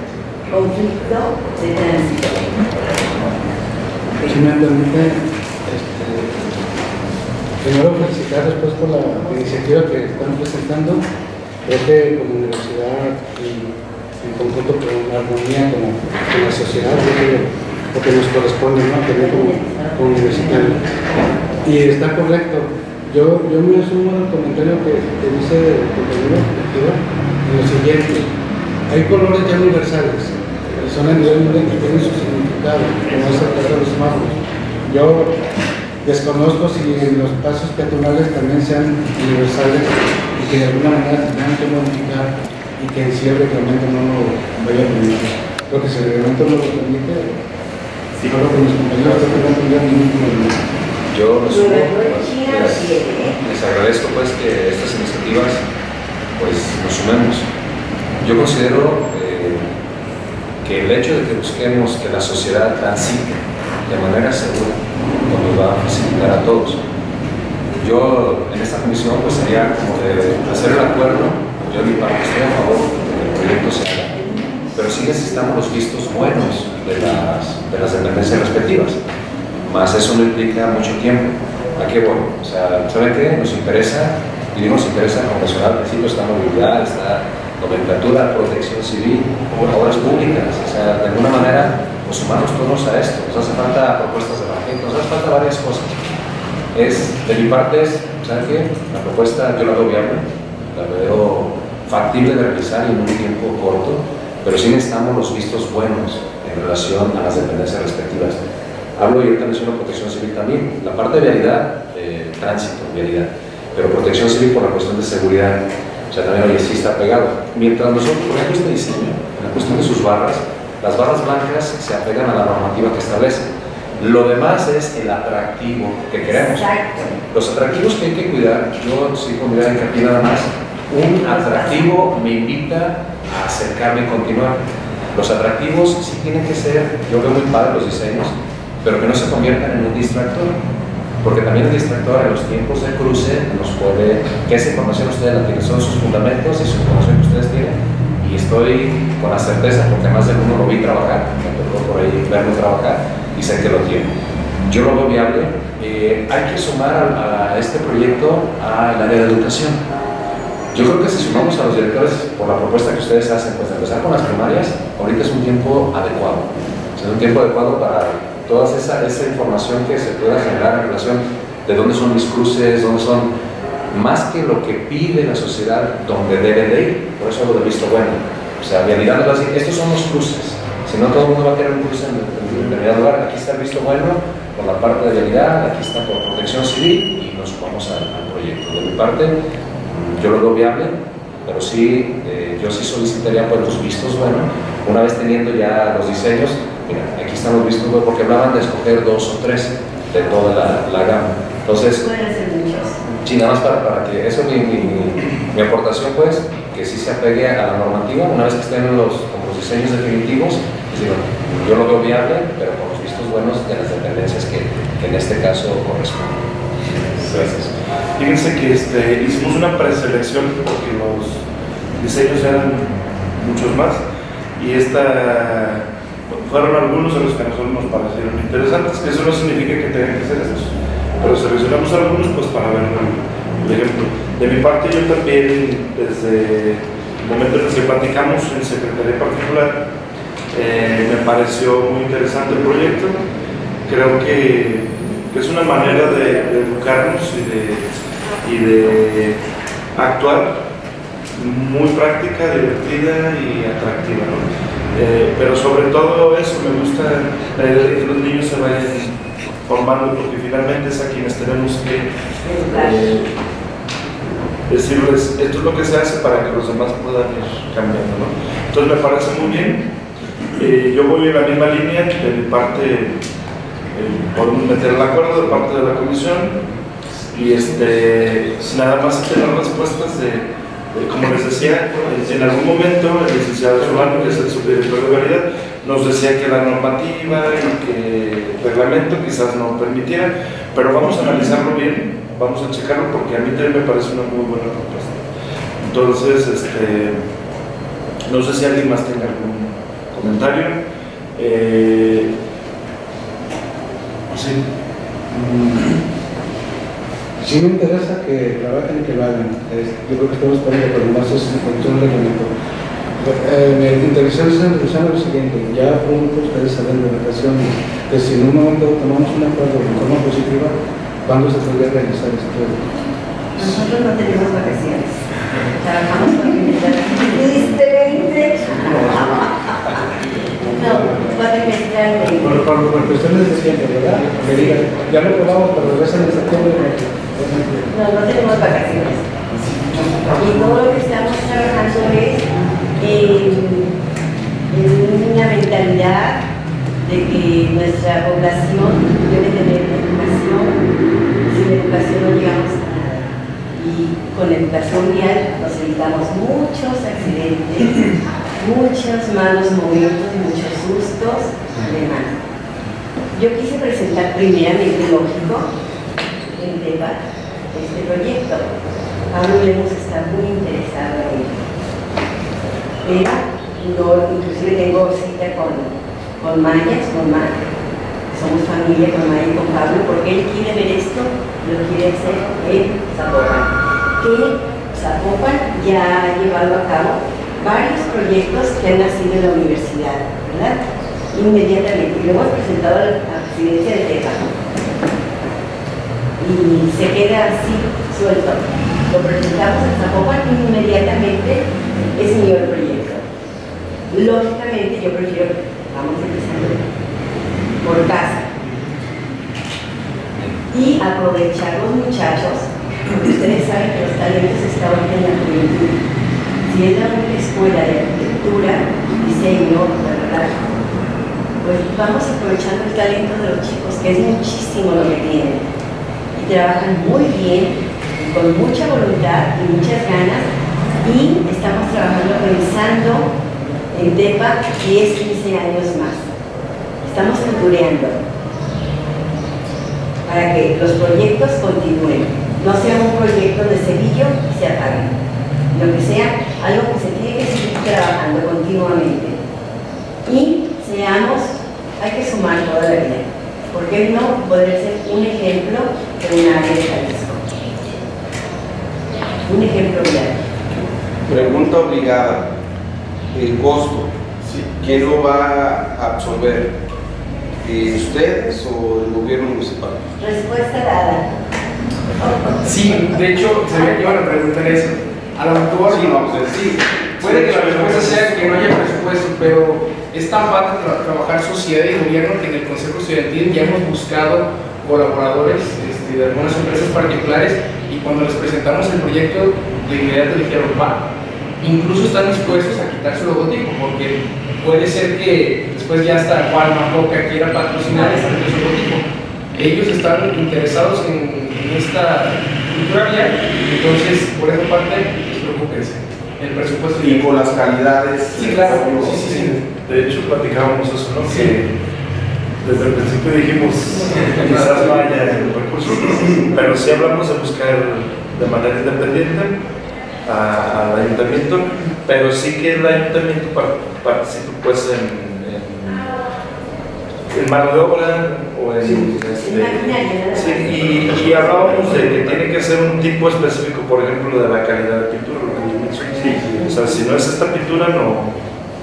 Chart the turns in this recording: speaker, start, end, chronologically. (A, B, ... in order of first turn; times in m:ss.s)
0:00.5-0:02.9 A
0:04.2-0:06.5 B
0:07.6-0:11.0 B
0:09.1-0:09.6 A
0:11.6-0:20.8 B
0:19.1-0:21.1 A
0:21.6-0:28.3 B
0:28.9-0:35.4 B
0:36.0-0:47.4 B
0:48.2-0:50.6 B
0:51.1-0:55.6 C
0:51.5-0:53.4 A
0:56.4-0:57.4 C
0:58.2-0:59.7 C
1:00.6-1:06.8 C
1:07.8-1:14.2 C
1:14.7-1:19.0 C
1:19.6-1:36.2 C
1:29.5-1:30.2 D
1:36.7-1:48.4 C
1:49.0-2:14.6 C
2:06.3-2:07.1 A
2:11.0-2:12.0 A
2:15.1-2:20.6 C
2:21.2-2:34.1 C
2:34.7-2:39.8 C
2:40.7-2:53.3 C
2:53.9-3:22.0 C
3:21.9-3:23.0 A
3:23.1-3:37.7 C
3:38.2-3:41.4 E
3:42.0-3:44.0 E
3:44.6-3:59.8 E
4:00.5-4:03.2 E
4:03.9-4:07.9 E
4:08.4-4:09.4 E
4:09.9-4:10.6 E
4:11.4-4:19.1 E
4:19.6-4:22.1 E
4:22.4-4:23.1 A
4:22.7-4:23.3 E
4:24.7-4:29.9 E
4:30.6-4:33.2 E
4:33.9-4:36.6 E
4:37.3-4:55.2 E
4:55.8-4:57.2 E
4:58.3-5:00.8 E
5:01.4-5:02.3 E
5:04.3-5:04.6 E
5:05.3-5:05.7 B
5:07.4-5:12.5 B
5:13.2-5:20.7 B
5:21.2-5:22.9 B
5:23.6-5:25.2 A
5:25.7-5:30.0 A
5:30.6-5:32.7 A
5:30.8-5:31.4 B
5:32.4-5:37.9 B
5:34.3-5:34.8 A
5:37.9-5:39.3 A
5:39.6-5:40.8 D
5:40.2-5:43.9 A
5:44.7-5:46.4 A
5:47.0-5:50.8 A
5:51.4-6:02.4 A
6:03.3-6:05.7 A
6:06.5-6:07.2 A
6:07.7-6:08.7 A
6:09.3-6:11.6 A
6:13.0-6:17.6 A
6:18.3-6:30.8 A
6:31.3-6:34.5 A
6:36.4-6:43.2 A
6:44.1-6:46.8 A
6:47.8-6:48.5 A
6:50.7-6:56.0 A
6:56.6-7:00.7 A
7:01.6-7:05.6 A
7:06.3-7:10.5 A
7:11.0-7:13.3 A
7:13.9-7:16.3 A
7:17.0-7:18.2 A
7:20.2-7:25.1 A
7:25.7-7:29.4 A
7:30.2-7:37.4 A
7:39.4-7:40.4 A
7:41.2-7:42.5 D
7:43.3-7:46.7 D
7:47.6-7:50.1 D
7:50.2-7:51.3 A
7:52.6-8:11.0 F
7:55.8-7:58.4 D
7:57.9-7:58.5 E
8:11.6-8:27.3 F
8:27.0-8:29.6 D
8:28.3-8:29.6 F
8:29.8-8:31.7 E
8:31.2-8:31.5 F
8:32.6-8:39.6 E
8:34.1-8:35.0 F
8:40.2-8:46.1 E
8:47.3-8:58.3 E
8:48.8-8:49.1 D
8:49.4-8:51.9 A
8:50.9-8:52.4 D
8:56.3-8:56.6 D